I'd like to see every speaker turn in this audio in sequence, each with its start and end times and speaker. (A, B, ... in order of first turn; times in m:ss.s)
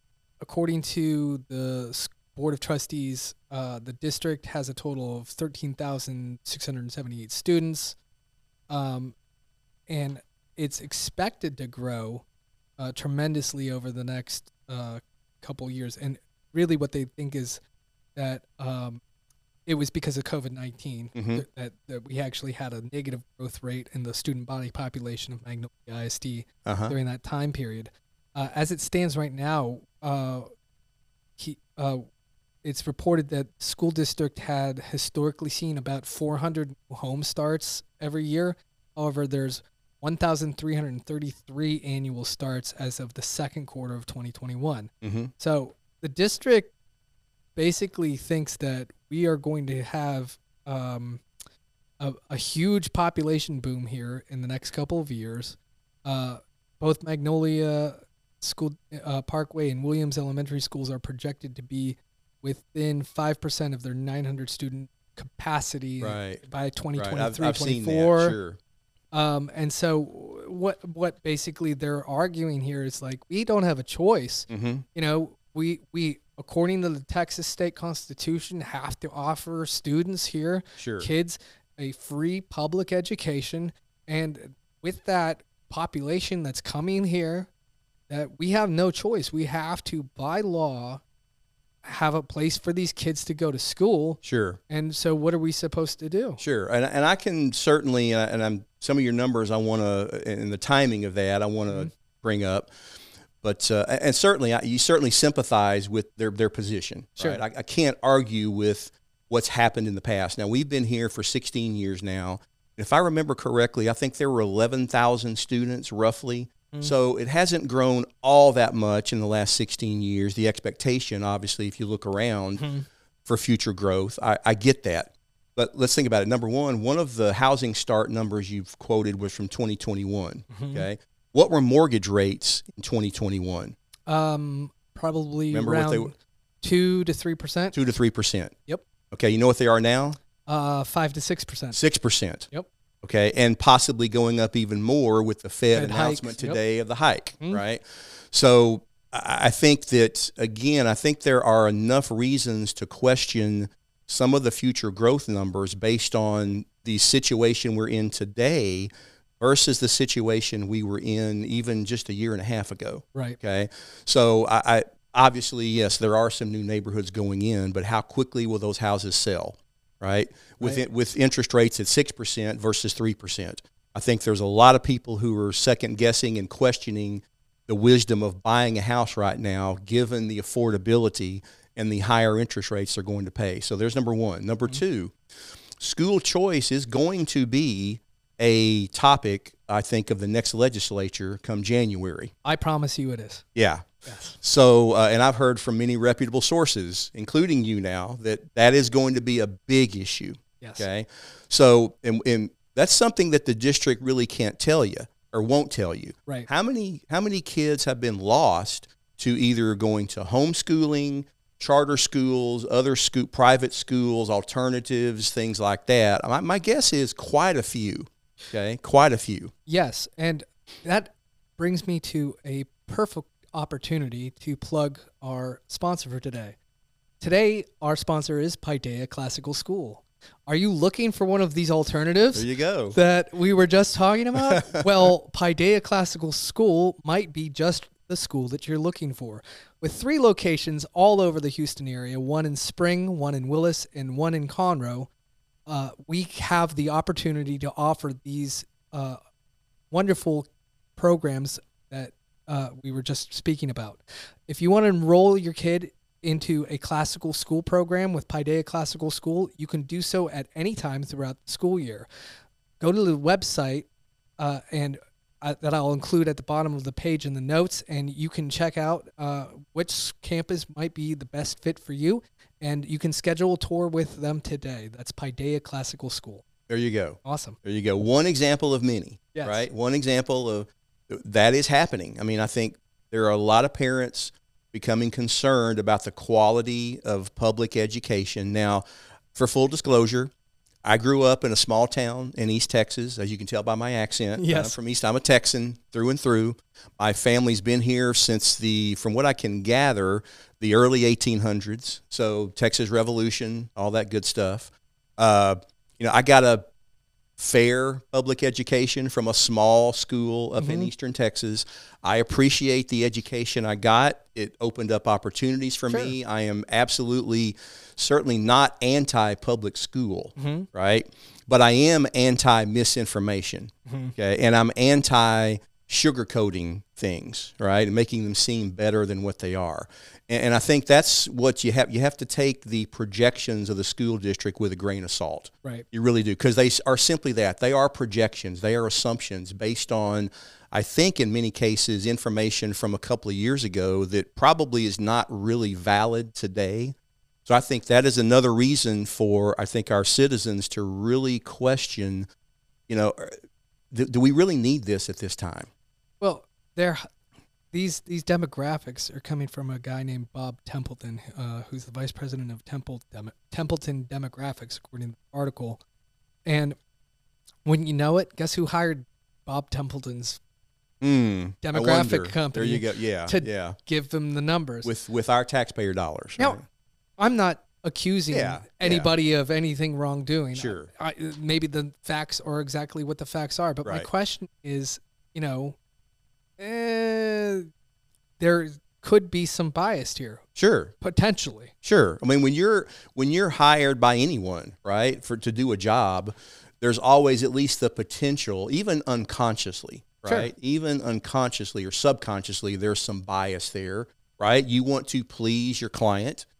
0:00.4-0:08.0 A
0:08.7-0:09.1 A
0:09.9-0:12.2 A
0:12.8-0:17.6 A
0:18.2-0:19.0 A
0:19.6-0:30.5 A
0:21.1-0:21.4 B
0:26.6-0:26.9 B
0:31.4-0:32.0 A
0:32.6-0:46.7 A
0:45.0-0:45.3 B
0:47.6-0:51.2 A
0:52.0-1:08.4 A
1:06.0-1:06.4 B
1:07.0-1:08.6 B
1:09.1-1:27.5 A
1:14.5-1:14.8 B
1:20.8-1:21.1 B
1:28.1-1:31.0 A
1:31.8-1:36.4 A
1:34.2-1:34.6 B
1:36.4-1:42.7 B
1:43.4-2:02.7 B
2:02.6-2:02.8 A
2:03.2-2:13.7 B
2:10.5-2:10.8 A
2:14.1-2:17.7 A
2:15.5-2:16.1 B
2:17.7-2:18.6 B
2:19.1-2:20.2 B
2:20.4-2:21.8 A
2:21.7-2:22.5 B
2:23.0-3:05.1 B
2:25.7-2:26.6 A
3:05.8-3:12.3 B
3:12.4-3:13.4 A
3:13.5-3:39.5 B
3:14.0-3:14.3 A
3:20.6-3:20.8 A
3:39.6-3:46.6 A
3:47.2-4:05.1 A
3:52.3-3:53.0 B
3:54.4-3:55.1 B
4:05.7-4:09.2 A
4:09.9-4:22.1 A
4:22.8-4:23.9 A
4:24.4-4:36.4 A
4:36.7-4:50.3 B
4:37.2-4:37.6 A
4:39.3-4:39.7 A
4:50.8-5:06.7 B
4:54.4-4:54.8 A
5:07.4-5:46.9 B
5:10.6-5:10.9 A
5:20.4-5:20.7 A
5:23.9-5:24.1 A
5:47.4-5:52.3 B
5:52.9-5:53.3 B
5:53.9-5:55.7 B
5:56.2-5:57.0 A
5:57.7-6:05.8 A
6:06.4-6:06.8 A
6:07.6-6:10.4 A
6:11.0-6:13.8 B
6:11.6-6:14.9 A
6:14.8-6:16.6 B
6:17.2-6:25.8 A
6:18.3-6:19.1 B
6:20.5-6:20.9 B
6:26.6-6:27.7 A
6:28.4-6:30.4 A
6:30.6-6:30.9 B
6:31.0-6:31.7 A
6:31.8-6:46.5 B